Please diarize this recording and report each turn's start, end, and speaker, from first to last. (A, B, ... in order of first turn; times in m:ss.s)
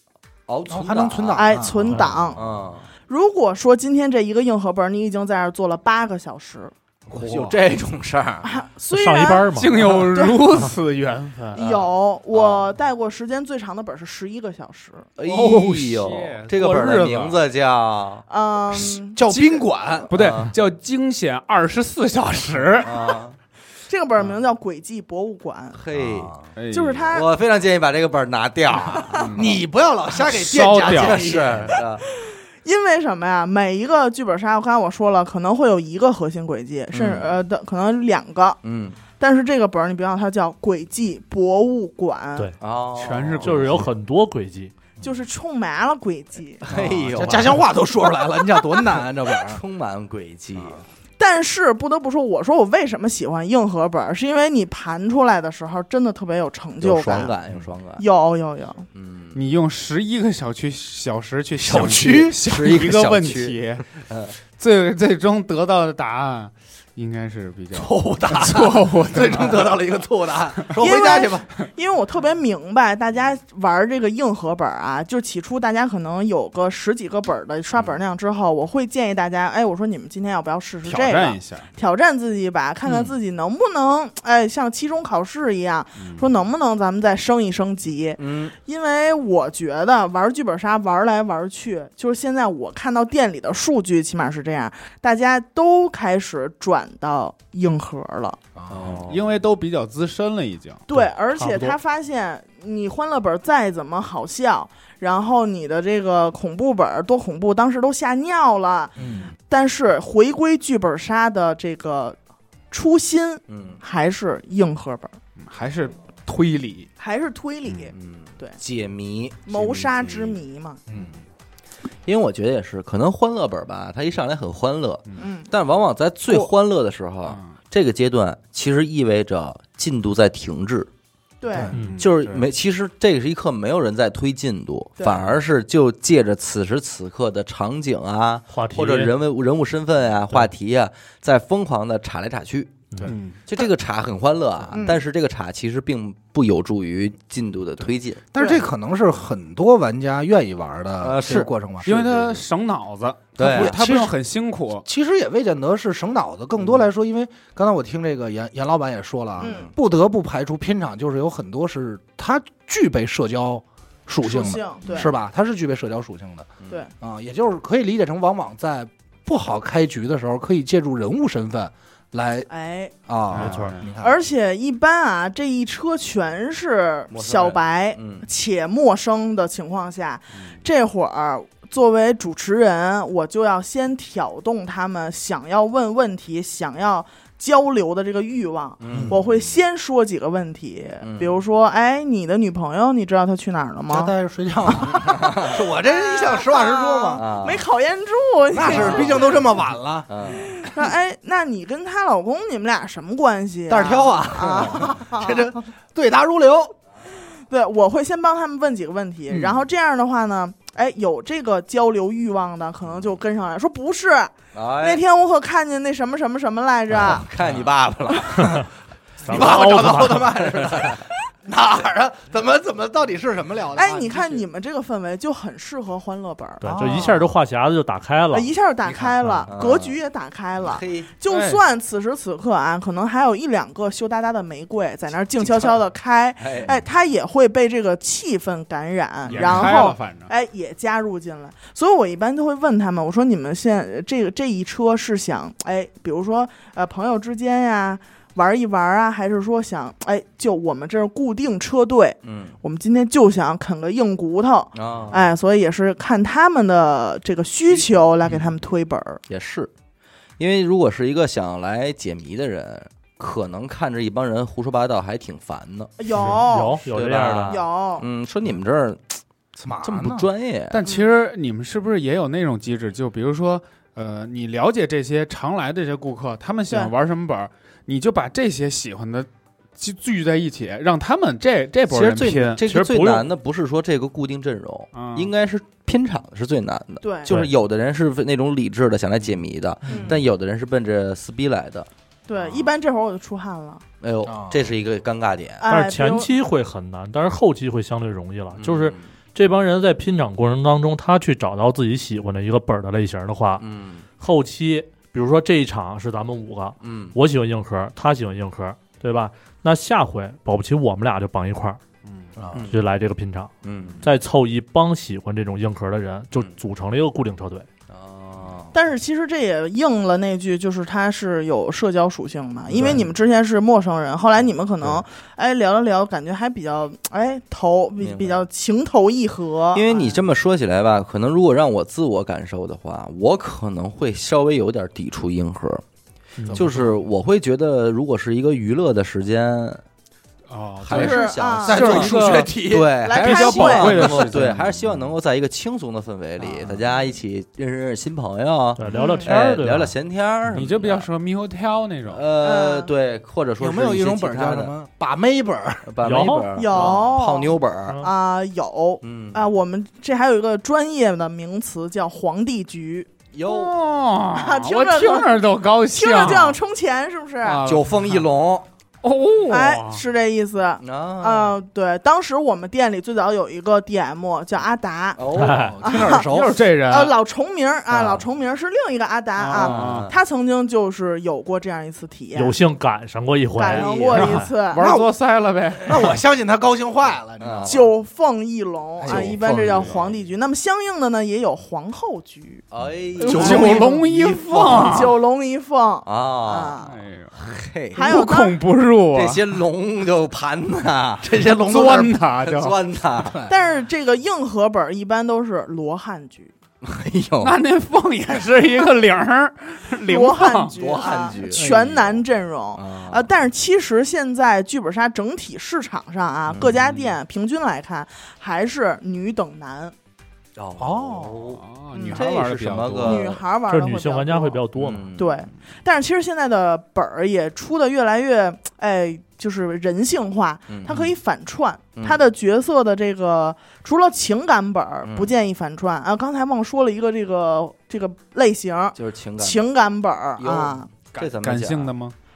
0:00.5-0:02.9 A
0:00.7-0:02.3 B
0:01.3-0:02.4 C
0:03.1-0:06.7 C
0:07.1-0:07.6 B
0:07.1-0:08.5 A
0:08.4-0:10.4 C
0:08.9-0:09.9 D
0:09.5-0:11.8 E
0:11.5-0:15.1 C
0:12.3-0:12.7 A
0:15.2-0:18.2 A
0:15.2-0:17.4 E
0:18.3-0:19.6 C
0:19.1-0:20.1 B
0:20.1-0:23.0 E
0:20.1-0:20.5 A
0:22.8-0:23.4 A
0:23.9-0:25.8 C
0:25.7-0:26.4 A
0:26.5-0:27.1 E
0:26.7-0:27.3 C
0:27.1-0:29.6 A
0:28.8-0:29.3 C
0:29.1-0:29.6 E
0:29.3-0:31.8 B
0:30.2-0:31.4 E
0:30.8-0:32.0 A
0:32.0-0:38.6 C
0:36.9-0:37.3 A
0:38.6-0:39.0 A
0:39.2-0:42.5 C
0:42.6-0:43.9 A
0:43.0-0:43.9 E
0:43.4-0:44.7 D
0:45.0-0:46.6 C
0:46.6-0:47.6 A
0:46.7-0:49.6 B
0:47.1-0:47.6 D
0:49.4-0:50.8 A
0:51.2-0:57.3 C
0:56.8-0:58.0 A
0:58.0-0:58.8 C
0:58.9-0:59.4 A
0:59.3-1:03.9 E
1:01.6-1:02.4 B
1:01.7-1:04.3 A
1:04.6-1:09.8 E
1:07.8-1:09.7 A
1:07.9-1:08.2 B
1:09.0-1:11.5 B
1:10.7-1:11.3 A
1:10.8-1:38.4 C
1:20.8-1:21.7 E
1:26.0-1:26.3 E
1:28.2-1:28.5 A
1:38.6-1:39.0 B
1:38.7-1:39.2 A
1:39.0-1:40.8 E
1:40.9-1:48.9 C
1:40.9-1:41.8 D
1:49.0-1:49.3 B
1:49.5-1:52.2 C
1:52.7-1:55.1 C
1:53.5-1:53.8 A
1:55.4-1:56.9 E
1:57.0-1:58.6 C
1:57.7-2:00.3 A
1:59.4-2:00.8 C
2:02.0-2:10.9 A
2:05.2-2:05.5 C
2:07.3-2:07.5 E
2:11.4-2:11.7 C
2:11.7-2:12.5 E
2:11.7-2:12.0 D
2:12.0-2:28.2 A
2:15.0-2:15.3 C
2:18.5-2:19.1 D
2:23.0-2:23.4 E
2:24.7-2:25.0 C
2:28.3-2:32.4 B
2:28.4-2:28.6 C
2:31.0-2:31.5 A
2:31.8-2:34.8 E
2:33.4-2:33.8 A
2:33.4-2:34.2 B
2:34.8-2:52.5 B
2:39.4-2:39.7 A
2:39.4-2:39.7 C
2:44.2-2:45.1 C
2:52.5-2:52.9 C
2:53.1-2:54.1 B
2:53.3-2:53.9 E
2:53.3-2:53.7 D
2:54.0-3:14.1 C
2:57.1-2:58.2 A
3:08.8-3:09.2 A
3:08.9-3:09.2 B
3:11.0-3:11.3 A
3:13.9-3:17.2 B
3:14.7-3:15.0 C
3:15.0-3:15.6 A
3:15.8-3:19.4 C
3:17.2-3:17.6 A
3:18.5-3:20.8 B
3:18.6-3:19.4 A
3:20.1-3:20.5 A
3:20.3-3:25.5 C
3:23.7-3:26.7 B
3:27.3-3:37.3 C
3:29.3-3:29.6 B
3:34.5-3:35.0 A
3:36.9-3:38.7 A
3:38.4-3:38.6 D
3:39.2-3:40.3 D
3:39.2-3:44.4 B
3:39.3-3:41.0 A
3:43.7-3:47.1 C
3:43.8-3:44.2 E
3:46.6-3:48.5 D
3:46.6-3:47.3 B
3:48.3-4:19.2 C
3:48.8-3:49.1 B
3:49.5-3:50.0 A
3:50.6-3:51.1 A
3:51.3-3:51.6 E
3:56.4-3:56.8 A
3:59.3-4:00.3 E
3:59.3-3:59.6 A
4:12.2-4:12.6 A
4:14.7-4:15.3 A
4:19.3-4:19.7 A
4:20.4-4:25.9 A
4:26.0-4:26.8 C
4:26.1-4:27.6 D
4:26.8-4:29.2 A
4:27.4-4:28.0 C
4:29.6-4:30.2 B
4:29.8-4:30.8 A
4:30.7-4:43.0 E
4:41.9-4:51.9 A
4:42.7-4:43.2 D
4:44.9-4:45.3 E
4:47.0-4:47.3 C
4:49.9-4:50.2 C
4:52.3-4:53.8 C
4:52.4-4:52.6 A
4:54.0-4:55.6 A
4:54.3-4:54.6 B
4:55.6-4:56.3 C
4:55.7-5:03.6 D
4:58.6-4:59.0 A
5:03.6-5:04.0 A
5:04.2-5:11.8 D
5:06.8-5:07.1 A
5:12.4-5:12.7 B
5:12.5-5:12.8 A
5:12.7-5:17.7 D
5:13.6-5:14.1 A
5:17.9-5:18.7 A
5:18.7-5:30.2 C
5:22.7-5:23.0 A
5:28.0-5:28.4 A
5:29.7-5:35.8 A
5:36.4-5:36.7 D
5:36.5-5:36.9 E
5:36.5-5:39.8 A
5:40.5-5:42.6 E
5:40.8-5:51.1 A
5:40.9-5:42.1 C
5:41.7-5:42.9 B
5:43.0-5:44.3 C
5:43.1-5:44.7 E
5:48.8-5:49.9 D
5:48.9-5:49.3 C
5:50.5-5:52.2 E
5:52.1-5:54.7 A
5:52.4-5:52.9 C
5:53.6-5:55.8 B
5:55.8-5:58.0 A
5:56.0-5:56.6 D
5:56.5-6:03.1 C
5:59.0-5:59.4 A
6:03.3-6:03.8 A
6:03.4-6:06.6 E
6:04.3-6:07.6 C
6:07.4-6:08.2 E
6:07.6-6:08.7 A
6:09.0-6:10.0 E
6:09.5-6:15.2 C
6:10.8-6:11.6 A
6:15.2-6:15.8 A
6:15.3-6:15.8 D
6:15.5-6:16.6 B
6:15.8-6:16.3 C
6:16.1-6:17.1 E
6:16.9-6:22.6 C
6:17.9-6:18.2 A
6:19.4-6:20.1 E
6:19.5-6:20.1 A
6:22.3-6:24.5 D
6:23.6-6:24.8 C
6:23.7-6:24.3 A
6:24.1-6:26.2 E
6:24.8-6:25.1 B
6:25.8-6:27.9 B
6:27.4-6:27.8 A
6:27.6-6:32.6 C
6:29.0-6:29.4 B
6:29.0-6:29.9 A
6:29.1-6:30.1 E
6:32.7-6:35.1 A
6:33.2-6:35.2 E
6:33.3-6:34.0 C
6:33.3-6:33.8 B
6:34.7-6:37.0 C
6:36.0-6:36.8 A
6:36.8-6:37.4 E
6:37.3-6:38.1 A
6:37.9-6:38.6 C
6:38.0-6:39.4 E
6:39.1-6:41.5 A
6:41.2-6:42.1 B
6:41.5-6:42.8 E
6:42.4-6:43.5 A
6:43.5-6:46.5 C
6:46.8-6:47.6 A
6:47.4-6:50.8 E
6:50.0-6:59.9 C
6:50.7-6:51.8 A
6:52.7-6:53.3 A
6:56.5-6:56.8 A
7:00.6-7:03.4 A
7:00.8-7:03.3 E
7:01.9-7:02.2 C
7:03.0-7:04.6 C
7:03.7-7:05.0 D
7:04.8-7:05.4 A
7:05.1-7:20.9 C
7:10.7-7:11.0 A
7:12.0-7:12.2 A
7:15.0-7:15.3 A
7:18.9-7:19.6 A
7:20.4-7:21.9 A
7:21.1-7:22.1 E